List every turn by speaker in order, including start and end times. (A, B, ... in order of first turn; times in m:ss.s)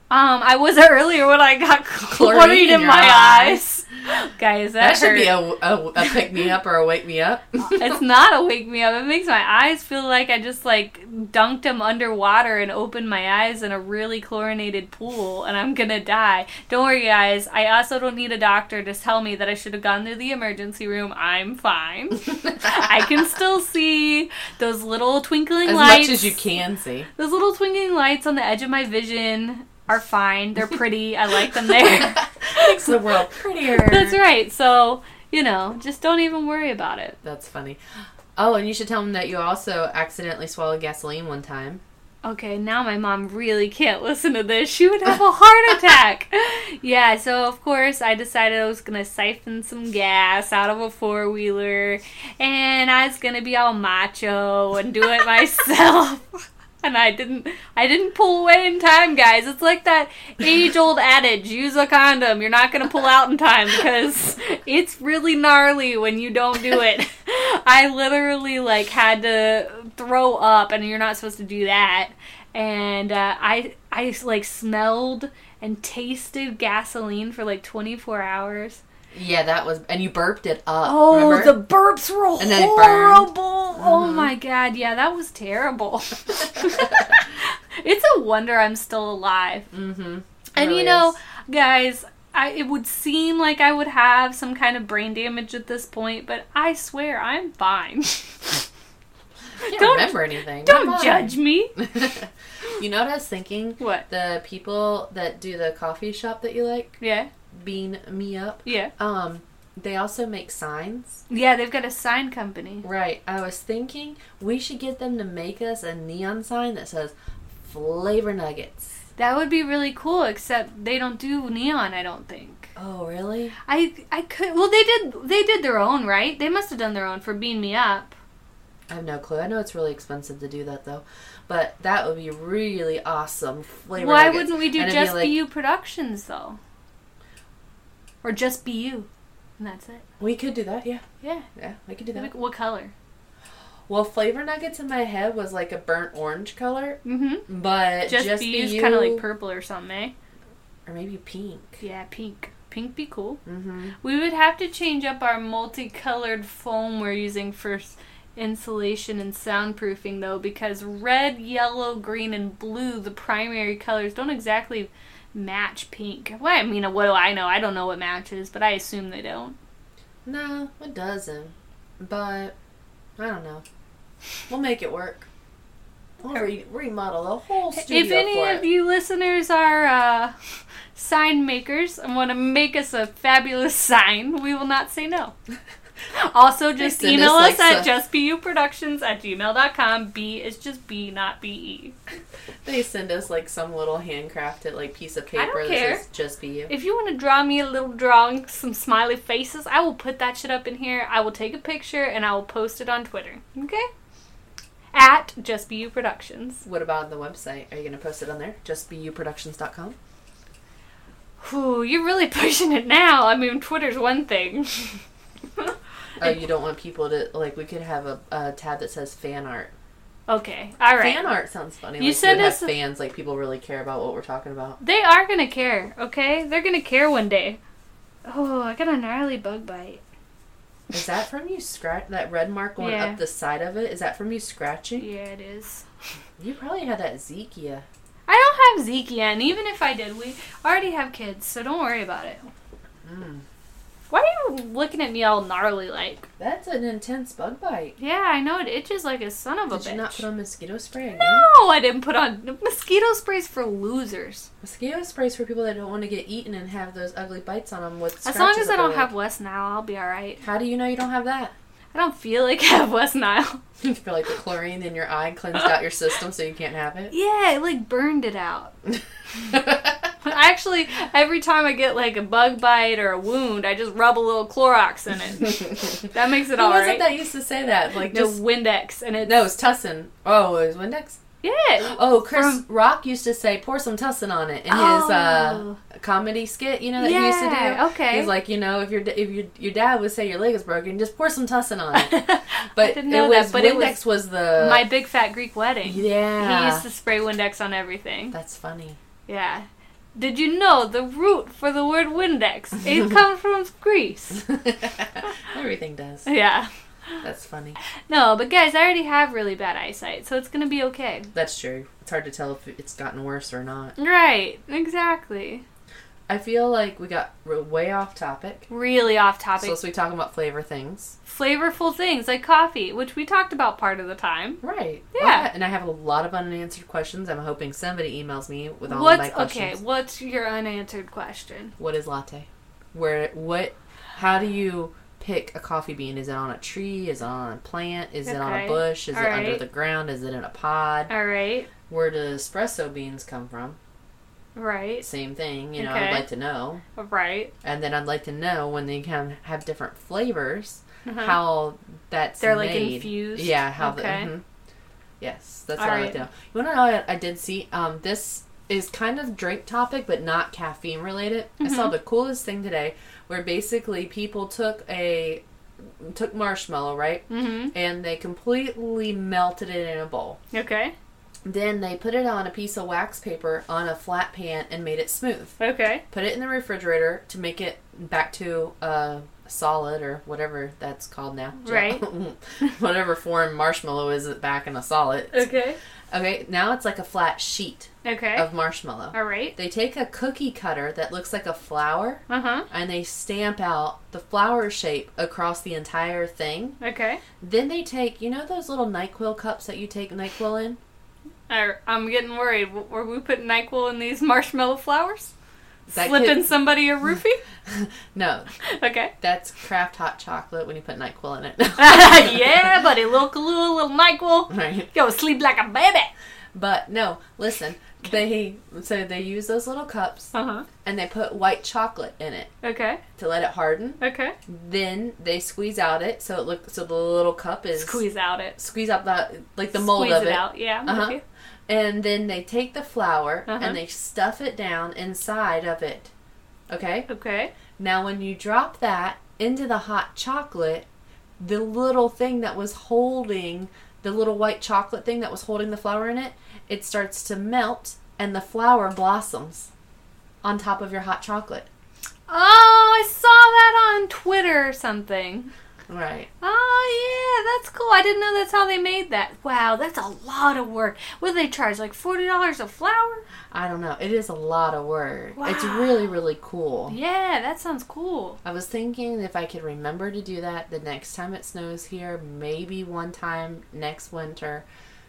0:00.1-0:05.4 A
0:02.1-0:03.6 B
0:04.8-0:08.0 B
0:07.7-0:26.4 A
0:25.6-0:27.1 B
0:27.2-0:33.0 A
0:31.9-0:34.2 B
0:33.7-0:37.2 A
0:37.2-0:37.8 B
0:38.4-0:41.8 B
0:42.2-1:18.8 A
1:19.1-1:21.6 B
1:20.8-1:29.7 A
1:22.4-1:24.3 B
1:29.7-1:31.2 B
1:30.6-1:38.7 A
1:39.6-1:41.8 A
1:39.6-1:47.0 B
1:43.8-1:44.0 A
1:47.0-1:47.3 A
1:47.5-1:51.2 B
1:48.7-1:48.9 A
1:51.3-1:52.8 A
1:52.8-1:57.1 B
1:57.6-1:59.0 B
1:59.2-2:02.7 A
2:02.8-2:03.6 B
2:03.7-2:08.2 A
2:08.9-2:15.4 B
2:14.0-2:16.6 A
2:18.2-2:19.1 A
2:19.6-2:20.0 A
2:20.2-2:21.0 B
2:21.2-2:21.5 A
2:21.6-2:22.3 B
2:22.2-2:22.9 A
2:23.9-2:29.2 B
2:27.0-2:27.5 A
2:28.0-2:30.1 A
2:30.9-2:31.8 B
2:31.8-2:33.4 A
2:33.5-2:34.0 B
2:34.0-2:49.6 A
2:50.3-2:52.6 B
2:53.2-2:53.6 B
2:54.5-2:55.3 B
2:56.2-2:58.6 B
2:57.8-3:00.4 A
3:01.0-3:05.3 A
3:06.1-3:12.0 A
3:06.8-3:07.9 B
3:12.6-3:16.7 B
3:15.4-3:16.0 A
3:16.7-3:23.9 A
3:24.9-3:26.6 A
3:26.6-3:30.0 B
3:31.4-3:35.0 A
3:35.6-3:36.4 A
3:36.2-3:39.7 B
3:40.3-3:41.2 A
3:41.0-3:44.8 B
3:42.0-3:42.7 A
3:44.8-3:47.6 A
3:48.2-3:50.0 A
3:50.9-3:55.1 B
3:52.8-3:53.2 A
3:55.0-3:55.8 A
3:56.4-3:57.8 B
3:58.3-4:02.5 A
4:03.0-4:03.4 B
4:04.1-4:06.3 A
4:06.4-4:08.0 B
4:08.0-4:10.2 A
4:09.7-4:11.5 B
4:11.2-4:14.5 A
4:14.6-4:19.1 B
4:18.2-4:20.4 A
4:20.4-4:21.5 B
4:21.9-4:23.6 A
4:23.8-4:27.1 B
4:27.1-4:28.7 A
4:29.5-4:30.1 B
4:30.2-4:37.1 A
4:36.5-4:38.4 B
4:38.1-4:39.5 A
4:39.2-4:41.2 B
4:41.4-4:42.6 A
4:41.8-4:54.9 B
4:44.7-4:45.8 A
4:47.0-4:48.3 A
4:51.9-4:54.0 A
4:54.5-4:58.4 A
4:55.8-4:56.8 B
4:58.3-4:59.0 B
4:59.3-5:04.4 A
5:04.4-5:06.3 B
5:06.3-5:07.2 A
5:07.2-5:07.8 B
5:08.1-5:11.3 A
5:11.3-5:14.0 B
5:14.0-5:15.6 A
5:16.3-5:18.7 B
5:18.7-5:19.8 A
5:19.6-5:21.2 B
5:21.3-5:24.6 A
5:24.6-5:29.8 B
5:25.1-5:25.5 A
5:28.9-5:31.8 A
5:31.8-5:41.1 B
5:38.2-5:39.6 A
5:41.1-5:41.7 A
5:41.9-5:43.8 B
5:44.6-5:45.1 A
5:45.0-5:46.8 B
5:45.8-5:46.3 A
5:47.0-5:47.5 A
5:47.6-5:54.4 B
5:51.1-5:51.4 A
5:52.4-5:54.3 A
5:55.2-6:05.4 B
5:55.8-5:56.2 A
6:01.6-6:01.9 A
6:06.0-6:10.4 B
6:07.3-6:07.7 A
6:10.5-6:11.0 A
6:11.4-6:15.6 B
6:15.6-6:16.0 A
6:16.1-6:25.5 B
6:21.6-6:22.0 A
6:25.3-6:25.8 A
6:26.1-6:36.8 B
6:28.0-6:28.5 A
6:29.1-6:29.6 A
6:32.3-6:32.7 A
6:36.8-6:37.2 A
6:37.4-6:40.8 B
6:41.5-6:45.3 A
6:45.9-6:46.5 B
6:45.9-6:47.4 A
6:47.7-6:48.5 B
6:48.6-6:49.1 A
6:49.2-6:52.5 B
6:51.8-6:56.1 A
6:54.5-6:54.9 B
6:56.5-7:02.5 B
7:00.3-7:00.7 A
7:02.6-7:03.0 A
7:03.2-7:08.0 B
7:04.0-7:04.4 A
7:07.8-7:08.6 A
7:08.6-7:16.1 B
7:09.7-7:11.2 A
7:13.5-7:13.8 A
7:16.7-7:17.1 B
7:17.1-7:17.5 A
7:17.8-7:20.9 B
7:21.4-7:29.7 B
7:30.4-7:31.7 B
7:32.3-7:35.5 A
7:35.9-7:36.3 B
7:36.4-7:43.2 A
7:43.5-7:47.0 B
7:45.4-7:46.0 A
7:46.9-7:48.4 A
7:48.4-7:54.7 B